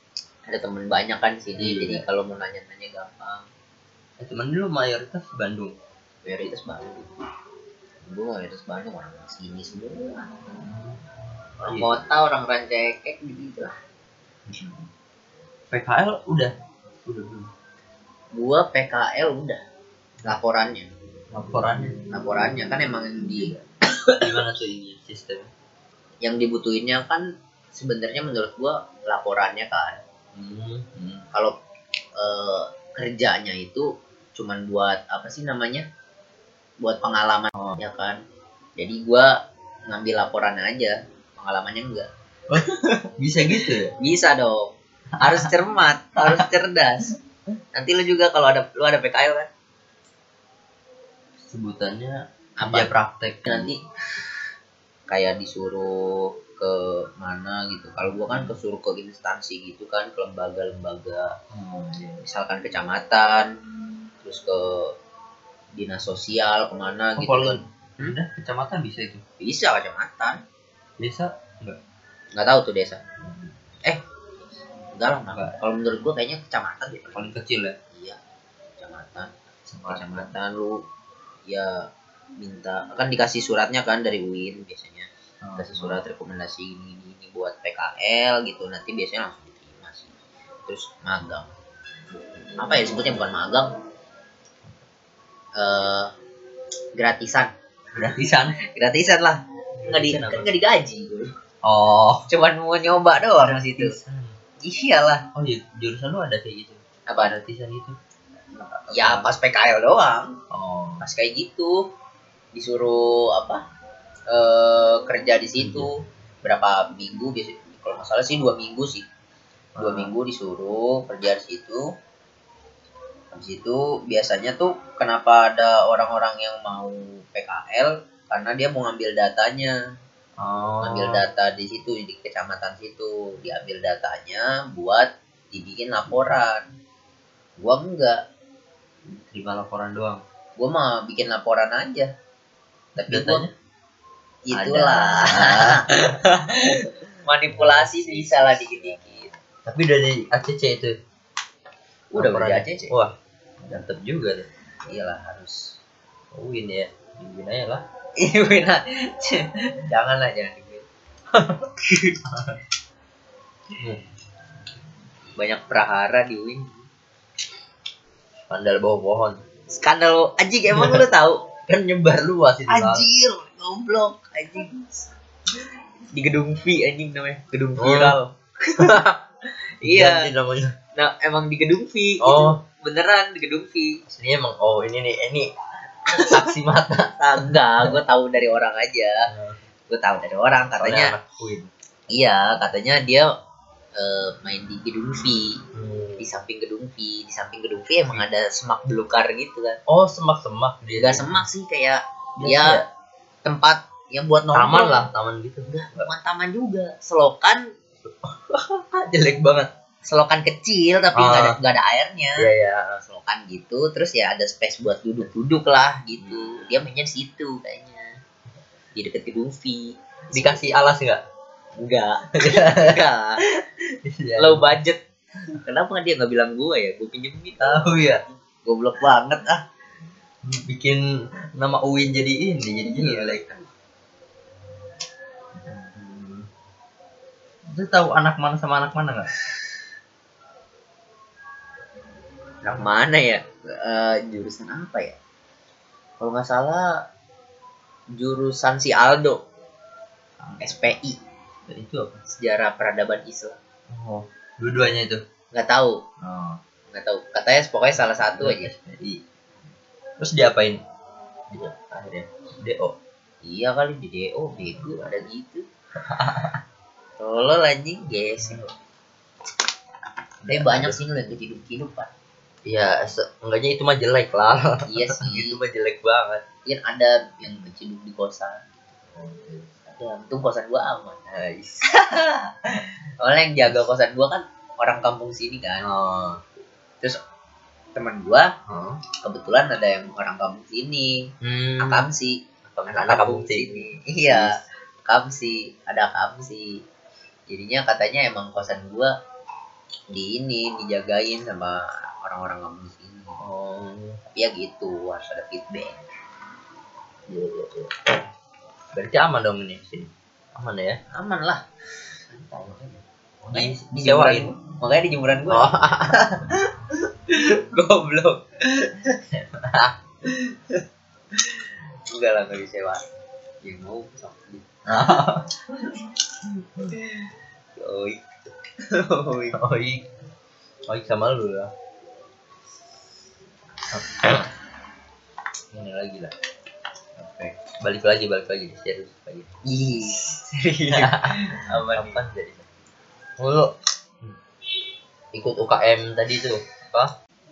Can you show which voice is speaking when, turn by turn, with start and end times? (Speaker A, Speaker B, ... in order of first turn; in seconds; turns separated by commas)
Speaker A: 0.5-3.5, Speaker B: 1.6-2.0, Speaker B: 4.2-5.8, Speaker A: 6.2-7.2, Speaker A: 8.0-10.6, Speaker B: 10.6-11.0, Speaker A: 11.6-13.7, Speaker B: 11.6-11.9, Speaker B: 15.7-16.5, Speaker B: 17.0-17.5, Speaker A: 18.3-19.6, Speaker A: 20.2-20.9, Speaker B: 21.3-21.9, Speaker A: 22.1-23.6, Speaker B: 24.2-25.5, Speaker A: 26.2-30.0, Speaker B: 30.3-31.2, Speaker A: 32.2-35.9, Speaker A: 36.8-38.2, Speaker A: 38.8-39.3, Speaker A: 39.9-42.1, Speaker B: 42.5-43.9, Speaker A: 44.0-47.1, Speaker A: 47.7-49.5, Speaker B: 51.4-53.7, Speaker A: 52.6-53.8, Speaker A: 55.1-61.3, Speaker B: 61.5-62.2, Speaker A: 62.2-63.5, Speaker A: 64.2-64.9, Speaker A: 65.7-68.2, Speaker B: 67.2-69.2, Speaker A: 69.4-70.4, Speaker B: 71.0-71.8, Speaker A: 72.3-73.0, Speaker A: 74.9-77.3, Speaker B: 75.3-75.6, Speaker B: 77.1-77.8, Speaker A: 77.9-78.2, Speaker A: 78.8-79.3, Speaker B: 79.7-80.3, Speaker A: 79.9-80.8, Speaker A: 81.5-81.8, Speaker A: 82.4-90.1, Speaker B: 85.4-86.0, Speaker A: 90.6-91.5, Speaker A: 92.5-93.7, Speaker A: 95.6-96.1, Speaker A: 97.0-97.5, Speaker B: 97.9-98.6, Speaker A: 98.7-101.3, Speaker B: 99.8-100.5, Speaker B: 101.6-102.3, Speaker A: 102.3-104.0, Speaker B: 103.4-104.3, Speaker A: 104.6-105.2, Speaker B: 105.3-108.0, Speaker A: 107.1-107.4, Speaker B: 108.6-109.3, Speaker A: 108.9-110.3, Speaker B: 110.5-111.0, Speaker A: 111.0-111.8, Speaker A: 112.5-113.6, Speaker A: 114.3-119.0, Speaker B: 115.6-115.9, Speaker B: 119.7-120.1, Speaker A: 119.8-121.8, Speaker A: 123.3-129.7, Speaker B: 130.4-131.2, Speaker A: 130.8-136.7, Speaker A: 137.6-138.2, Speaker B: 139.1-140.2, Speaker A: 140.6-142.1, Speaker A: 142.9-143.5, Speaker B: 143.1-143.5, Speaker A: 144.5-149.3, Speaker B: 144.5-145.9, Speaker B: 147.5-149.1, Speaker B: 149.6-150.9, Speaker A: 152.1-152.9, Speaker B: 152.2-154.4, Speaker A: 154.9-155.7, Speaker B: 156.3-157.8, Speaker A: 158.2-160.8, Speaker B: 161.3-162.6, Speaker A: 165.4-166.8, Speaker B: 168.5-169.4, Speaker A: 169.7-171.4, Speaker B: 170.7-171.0, Speaker B: 171.7-173.1, Speaker A: 172.7-175.1, Speaker A: 176.1-179.1, Speaker B: 177.8-178.2, Speaker B: 178.8-179.1, Speaker A: 179.8-180.3, Speaker B: 179.8-180.7, Speaker A: 180.9-184.0, Speaker B: 182.2-182.6, Speaker B: 184.1-185.5, Speaker A: 186.1-189.1, Speaker B: 186.1-187.1, Speaker B: 189.3-189.6, Speaker A: 189.9-191.1, Speaker B: 190.8-191.7, Speaker A: 192.1-193.3, Speaker A: 194.0-195.6, Speaker B: 195.7-196.2, Speaker A: 196.2-199.8, Speaker B: 199.9-201.4, Speaker A: 200.9-202.8, Speaker B: 202.4-202.8, Speaker A: 203.4-205.1, Speaker B: 204.5-206.1, Speaker A: 205.7-207.7, Speaker B: 208.0-209.7, Speaker A: 210.0-212.5, Speaker B: 211.1-211.6, Speaker B: 212.4-213.0, Speaker A: 213.0-218.1, Speaker B: 216.2-216.8, Speaker A: 218.9-220.6, Speaker B: 220.3-221.2, Speaker A: 221.8-223.4, Speaker B: 222.4-224.8, Speaker A: 224.4-225.0, Speaker A: 225.6-229.6, Speaker B: 227.6-228.2, Speaker B: 230.4-231.0, Speaker B: 231.5-233.4, Speaker A: 232.9-233.6, Speaker B: 235.6-236.5, Speaker B: 237.7-239.3, Speaker A: 242.6-245.2, Speaker A: 246.2-246.9, Speaker A: 248.1-249.4, Speaker B: 250.4-250.8, Speaker A: 250.6-251.2, Speaker B: 251.7-252.2, Speaker A: 252.3-253.6, Speaker B: 253.9-255.2, Speaker A: 255.5-256.0, Speaker B: 256.2-256.6, Speaker A: 256.9-258.7, Speaker B: 258.4-259.2, Speaker B: 260.2-260.8, Speaker B: 261.5-262.9, Speaker A: 263.4-265.6, Speaker B: 266.0-266.6, Speaker A: 267.2-268.6, Speaker B: 270.4-271.0, Speaker A: 270.5-272.1, Speaker B: 272.6-276.4, Speaker A: 274.9-275.6, Speaker A: 276.6-278.6, Speaker B: 279.1-279.8, Speaker A: 279.9-281.3, Speaker B: 281.3-281.9, Speaker A: 281.9-285.9, Speaker B: 285.8-286.4, Speaker A: 287.9-288.5, Speaker B: 288.7-289.0, Speaker A: 289.2-291.2, Speaker B: 291.4-292.1, Speaker A: 291.8-292.4, Speaker B: 292.7-294.5, Speaker A: 292.9-294.5, Speaker A: 295.1-296.8, Speaker A: 297.5-299.1, Speaker A: 300.1-303.4, Speaker B: 303.4-304.2, Speaker A: 304.3-306.0, Speaker B: 307.3-308.1, Speaker B: 308.9-311.0, Speaker A: 311.1-311.6, Speaker A: 312.3-313.0, Speaker B: 313.4-314.5, Speaker A: 313.5-316.6, Speaker B: 315.5-316.2, Speaker A: 317.3-319.1, Speaker B: 319.3-319.9, Speaker A: 320.3-320.8, Speaker A: 322.1-323.0, Speaker A: 323.6-324.7, Speaker B: 324.9-326.1, Speaker B: 326.6-326.9, Speaker A: 327.8-328.2, Speaker A: 328.9-329.6, Speaker B: 329.5-330.0, Speaker B: 330.9-331.7, Speaker B: 333.9-334.5, Speaker B: 335.7-336.3, Speaker A: 337.2-337.5, Speaker B: 337.6-339.5, Speaker A: 339.6-342.2, Speaker B: 340.9-342.6, Speaker B: 343.4-344.3, Speaker B: 345.3-347.1